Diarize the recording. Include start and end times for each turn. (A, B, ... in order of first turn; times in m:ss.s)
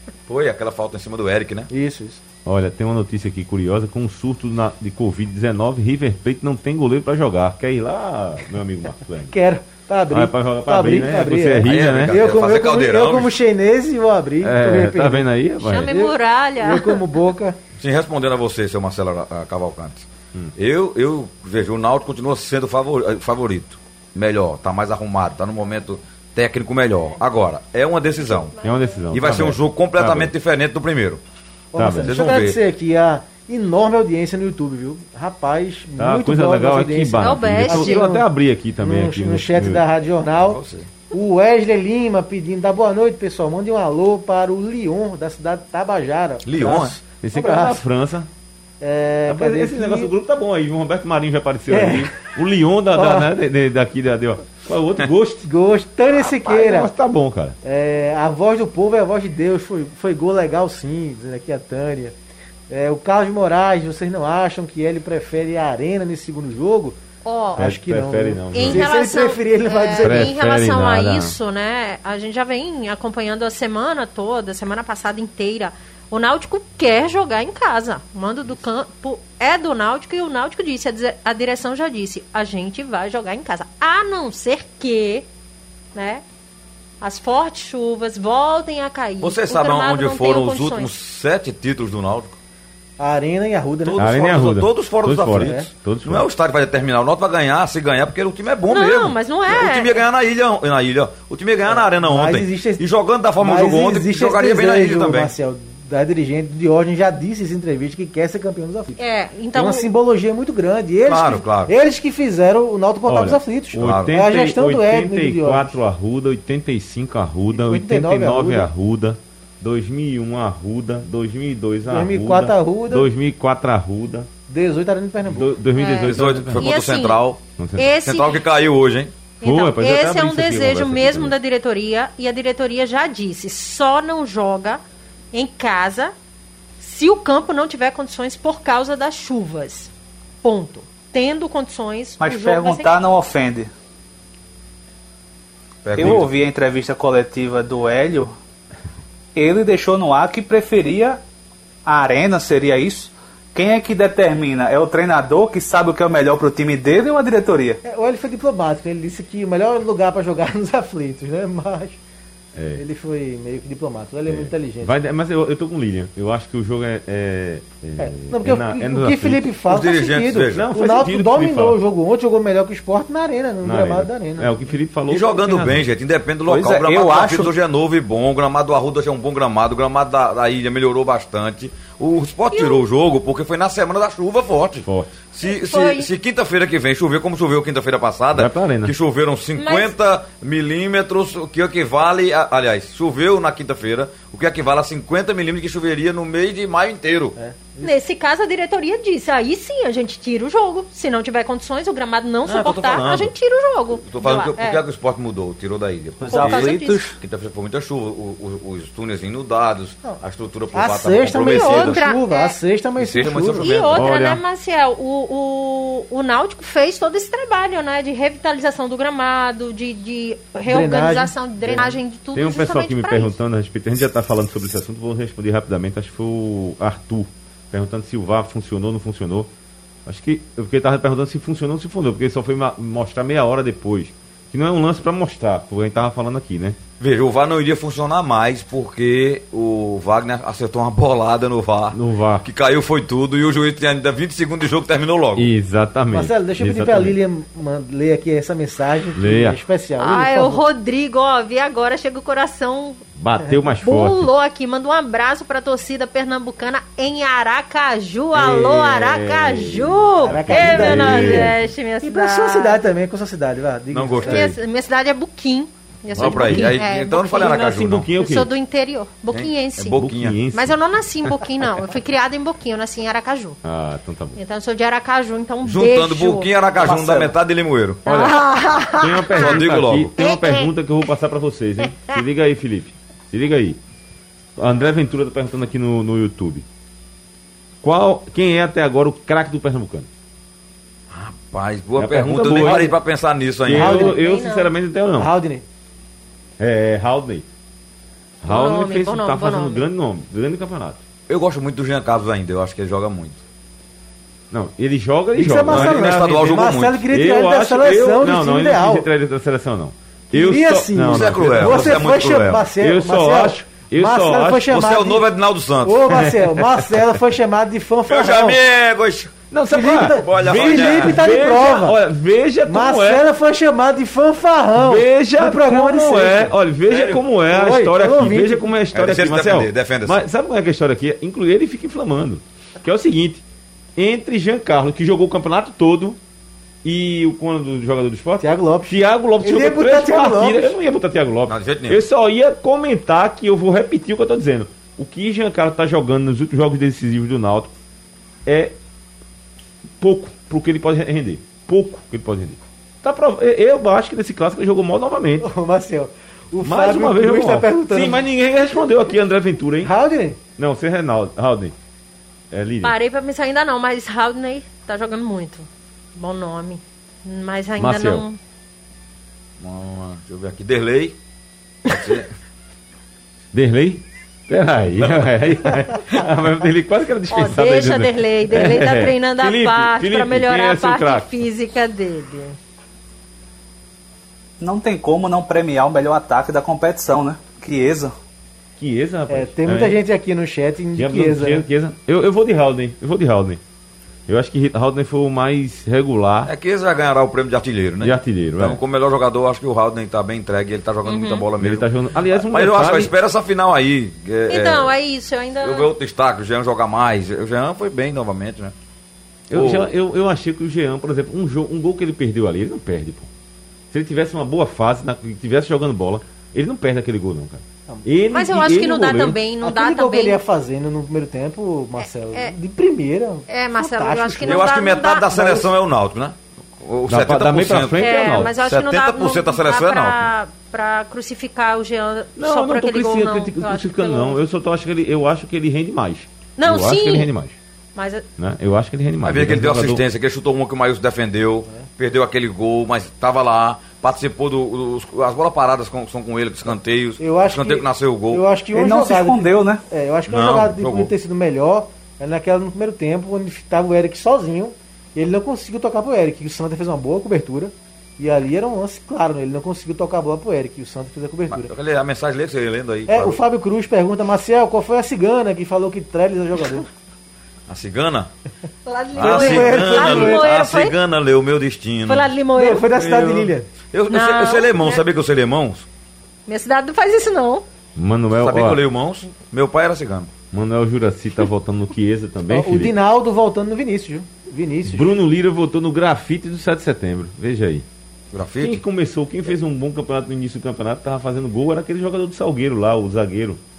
0:00.3-0:01.7 A
0:01.7-0:02.2 B
0:02.4-0:09.4 C
0:09.3-0:15.3 B
0:10.1-0:12.2 C
0:11.6-0:13.3 A
0:14.4-0:15.9 C
0:15.6-0:17.0 D
0:15.8-0:17.6 B
0:17.8-0:28.5 A
0:28.6-0:30.3 C
0:29.1-0:31.2 A
0:31.7-0:38.3 B
0:31.7-0:32.2 C
0:32.0-0:32.6 A
0:36.0-0:39.8 C
0:37.2-0:38.1 D
0:38.8-0:40.6 B
0:40.4-0:40.9 A
0:41.1-0:47.8 B
0:46.4-0:47.0 A
0:47.2-0:48.3 C
0:48.8-0:50.1 B
0:49.3-0:55.5 C
0:51.7-0:52.1 B
0:52.9-0:53.3 B
0:55.4-0:56.9 B
0:56.4-0:57.6 C
0:57.6-1:02.1 B
1:02.7-1:07.0 B
1:07.2-1:07.6 D
1:07.5-1:10.3 B
1:07.6-1:08.9 C
1:08.5-1:25.2 D
1:10.0-1:11.4 C
1:25.9-1:26.2 D
1:27.0-1:30.9 D
1:29.2-1:32.3 A
1:33.0-1:34.3 B
1:33.8-1:45.3 A
1:34.0-1:36.3 C
1:35.4-1:35.7 B
1:38.7-1:40.0 D
1:41.7-1:42.8 B
1:43.4-1:49.0 B
1:49.0-1:49.9 D
1:49.5-1:55.8 B
1:51.0-1:51.7 A
1:53.0-2:04.3 C
1:53.8-1:54.1 A
1:57.5-1:58.7 B
2:01.8-2:03.1 B
2:04.5-2:05.6 B
2:05.3-2:06.7 C
2:05.7-2:07.2 D
2:06.0-2:07.4 A
2:07.6-2:07.9 C
2:07.8-2:08.4 D
2:08.0-2:09.1 A
2:09.4-2:14.8 D
2:09.4-2:11.3 C
2:15.3-2:16.1 D
2:16.8-2:19.9 D
2:20.4-2:22.9 D
2:22.2-2:23.7 E
2:25.8-2:26.3 A
2:25.9-2:28.3 E
2:26.0-2:26.2 C
2:29.3-2:31.2 E
2:31.8-2:37.8 E
2:37.8-2:42.0 B
2:42.6-2:42.8 C
2:42.8-2:44.9 B
2:44.3-2:49.5 C
2:48.0-2:54.6 B
2:49.6-2:50.7 A
2:50.5-2:51.8 C
2:53.6-2:55.8 C
2:55.1-3:17.4 A
2:56.5-2:57.5 E
3:02.5-3:02.8 D
3:04.8-3:05.1 C
3:05.4-3:06.1 D
3:08.3-3:08.9 C
3:09.6-3:09.9 D
3:17.4-3:17.9 B
3:17.8-3:24.8 D
3:22.4-3:23.3 A
3:24.0-3:32.0 A
3:26.2-3:27.2 E
3:26.3-3:27.0 D
3:30.7-3:33.6 B
3:31.4-3:32.6 D
3:33.0-3:34.1 A
3:33.6-3:43.4 D
3:33.9-3:34.4 C
3:40.7-3:42.0 B
3:42.3-3:49.5 C
3:50.0-3:56.8 C
3:57.0-4:05.5 A
4:01.9-4:02.4 C
4:05.4-4:07.2 C
4:06.1-4:10.6 B
4:09.1-4:09.6 C
4:10.0-4:13.0 D
4:13.2-4:14.3 C
4:13.8-4:22.8 D
4:18.3-4:21.6 C
4:20.2-4:24.5 B
4:23.9-4:24.6 A
4:24.2-4:27.7 D
4:26.1-4:26.8 C
4:26.1-4:28.1 A
4:27.3-4:28.5 C
4:28.2-4:33.6 D
4:29.3-4:30.4 A
4:29.9-4:30.8 C
4:33.6-4:34.4 C
4:34.4-4:36.5 D
4:35.6-4:38.0 A
4:36.8-4:37.3 E
4:38.0-4:38.4 C
4:38.0-4:39.6 D
4:38.9-4:43.8 C
4:39.3-4:40.2 A
4:40.2-4:40.7 D
4:44.6-4:46.6 C
4:47.8-4:50.1 C
4:51.1-4:54.0 A
4:52.0-4:53.0 C
4:53.6-4:55.3 C
4:53.7-4:54.2 B
4:54.0-4:54.7 D
4:55.2-4:55.6 B
4:56.6-4:57.4 C
4:58.4-5:01.0 C
4:58.4-4:59.9 D
5:01.3-5:03.4 A
5:04.5-5:12.2 C
5:05.3-5:09.1 B
5:05.7-5:07.0 A
5:10.3-5:15.2 B
5:11.1-5:12.7 A
5:12.8-5:14.7 C
5:14.7-5:16.2 A
5:15.8-5:18.6 B
5:16.2-5:17.0 C
5:18.1-5:19.4 A
5:19.5-5:23.2 C
5:19.7-5:22.0 B
5:19.9-5:21.3 A
5:22.6-5:26.5 B
5:24.8-5:33.4 C
5:26.9-5:27.2 A
5:27.5-5:28.7 B
5:28.9-5:30.2 A
5:34.0-5:36.2 C
5:36.8-5:47.7 C
5:38.4-5:40.7 B
5:41.5-5:42.0 A
5:48.4-5:48.7 C
5:50.0-5:55.5 C
5:55.4-5:58.2 B
5:56.6-5:59.9 C
5:59.8-6:00.4 B
6:00.6-6:01.7 C
6:02.5-6:03.0 C
6:02.8-6:08.4 D
6:07.8-6:08.2 C
6:09.6-6:11.2 A
6:11.8-6:12.3 A
6:13.5-6:21.3 C
6:17.3-6:22.6 D
6:24.6-6:28.1 E
6:28.8-6:30.0 C
6:29.3-6:31.6 B
6:31.0-6:33.6 C
6:34.3-6:36.5 C
6:36.4-6:44.9 A
6:38.0-6:38.8 C
6:41.0-6:41.4 D
6:41.6-6:43.1 C
6:44.5-6:45.9 D
6:45.6-6:48.7 A
6:49.5-6:53.3 C
6:49.5-6:49.9 A
6:53.9-6:59.4 C
6:58.3-7:00.4 D
6:59.6-7:04.6 B
7:02.0-7:02.5 D
7:03.5-7:05.3 D
7:04.4-7:10.3 A
7:05.3-7:05.7 B
7:07.1-7:08.5 C
7:08.0-7:14.4 D
7:12.4-7:17.6 C
7:16.6-7:17.3 D
7:17.9-7:18.2 D
7:18.4-7:20.0 C
7:19.2-7:28.4 A
7:27.2-7:41.7 B
7:28.7-7:29.8 E
7:30.3-7:31.1 A
7:41.5-7:43.4 A
7:43.1-7:46.9 B
7:47.7-7:48.3 A
7:48.8-7:51.0 D
7:49.1-7:52.3 A
7:49.2-7:50.4 B
7:52.0-7:52.9 D
7:52.5-7:53.7 B
7:53.1-7:55.8 A
7:54.1-7:55.0 D
7:56.5-7:57.6 D
7:58.0-7:58.8 C
7:58.3-8:00.3 A
8:00.5-8:02.9 C
8:02.5-8:05.2 B
8:04.8-8:07.8 C
8:08.3-8:08.8 A
8:08.6-8:13.6 C